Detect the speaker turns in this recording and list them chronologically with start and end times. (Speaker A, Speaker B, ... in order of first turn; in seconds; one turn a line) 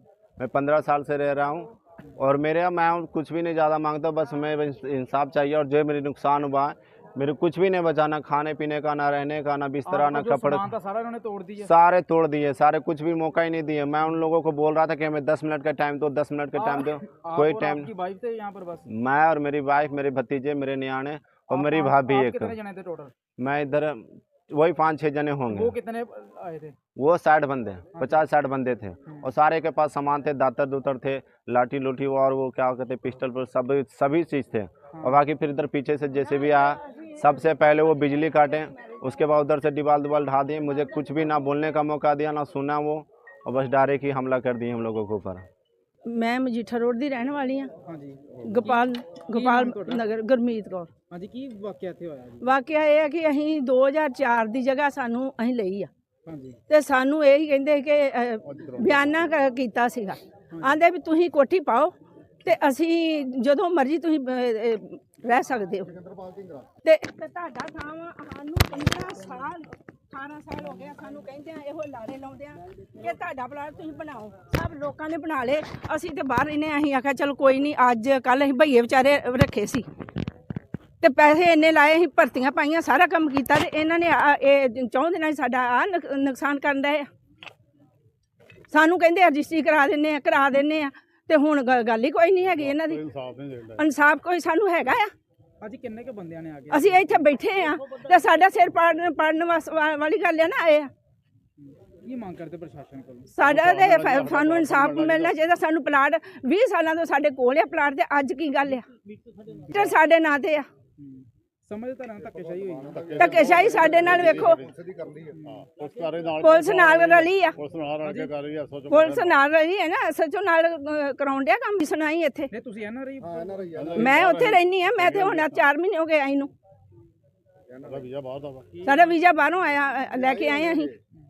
Speaker A: 0.4-10.7
Speaker B: 9.8-11.7
Speaker A: 11.6-17.9
Speaker B: 16.6-18.9
Speaker A: 18.9-22.6
Speaker B: 21.5-23.1
Speaker A: 23.4-25.8
Speaker B: 25.5-26.8
Speaker A: 27.0-45.5
Speaker B: 27.9-28.2
Speaker B: 34.9-35.2
Speaker C: 46.1-47.7
Speaker B: 47.8-50.1
Speaker C: 48.4-50.9
Speaker B: 51.1-52.5
Speaker C: 52.4-55.9
Speaker B: 56.3-56.6
Speaker C: 56.7-61.9
Speaker D: 58.5-59.0
Speaker B: 60.5-60.8
Speaker C: 62.4-65.9
Speaker C: 66.8-79.9
Speaker C: 81.0-87.1
Speaker C: 88.7-93.0
Speaker D: 92.6-93.8
Speaker C: 93.8-95.1
Speaker B: 95.6-97.2
Speaker C: 96.7-100.9
Speaker B: 101.6-103.3
Speaker C: 103.3-108.9
Speaker D: 103.4-105.3
Speaker B: 109.5-110.0
Speaker C: 109.7-110.7
Speaker B: 111.0-113.2
Speaker D: 113.0-114.7
Speaker C: 113.2-114.6
Speaker B: 115.3-115.7
Speaker D: 115.5-119.4
Speaker C: 116.4-117.6
Speaker B: 118.0-118.3
Speaker C: 118.9-122.5
Speaker B: 122.5-123.9
Speaker D: 123.7-125.7
Speaker C: 123.9-126.5
Speaker D: 127.8-128.9
Speaker C: 128.8-130.9